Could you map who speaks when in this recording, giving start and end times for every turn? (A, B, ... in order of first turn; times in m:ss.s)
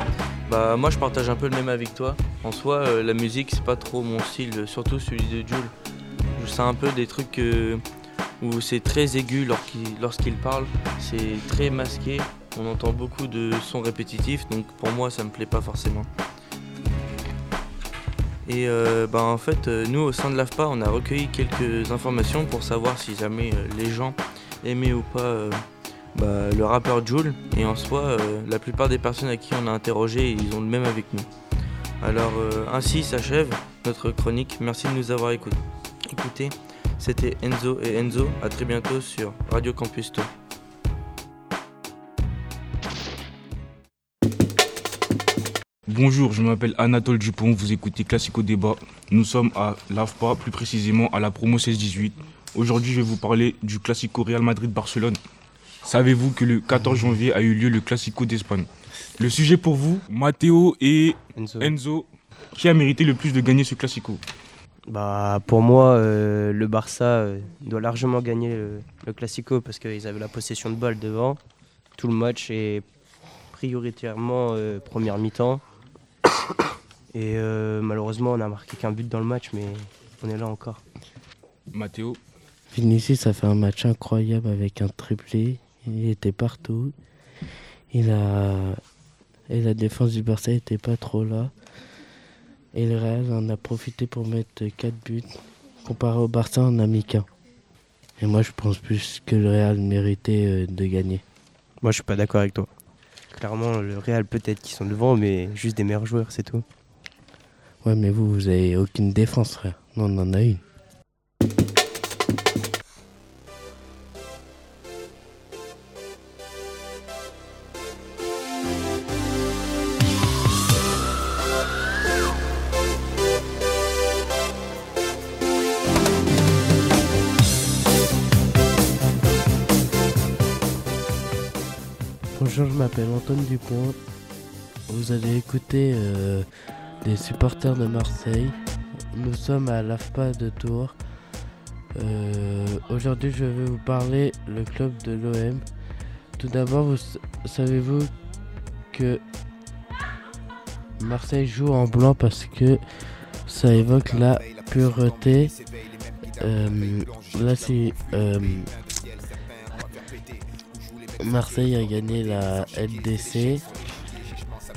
0:00.5-0:05.7 A
0:06.4-0:07.8 A
0:08.4-0:16.1 A
0:18.4-0:25.6 A
0:26.2-0:31.3 A
0:32.0-0:40.3 A
0:45.9-0:55.2 B
0:55.8-1:04.2 B
1:01.4-1:01.7 C
1:04.9-1:11.4 C
1:12.0-1:12.8 C
1:13.5-1:15.6 C
1:17.1-1:20.8 C
1:21.7-1:22.2 B
1:22.7-1:26.9 D
1:27.9-1:28.8 D
1:29.5-1:31.5 D
1:32.7-1:37.3 D
1:38.2-1:41.2 D
1:41.8-1:42.7 C
1:43.3-1:46.6 C
1:47.8-1:50.6 D
2:12.4-2:14.0 D
2:14.9-2:16.5 D
2:17.0-2:18.6 D
2:19.1-2:21.0 D
2:22.0-2:25.6 D
2:26.4-2:28.1 D
2:28.9-2:29.2 D
2:31.0-2:32.8 D
2:33.5-2:35.5 D
2:36.4-2:38.7 D
2:41.2-2:43.6 D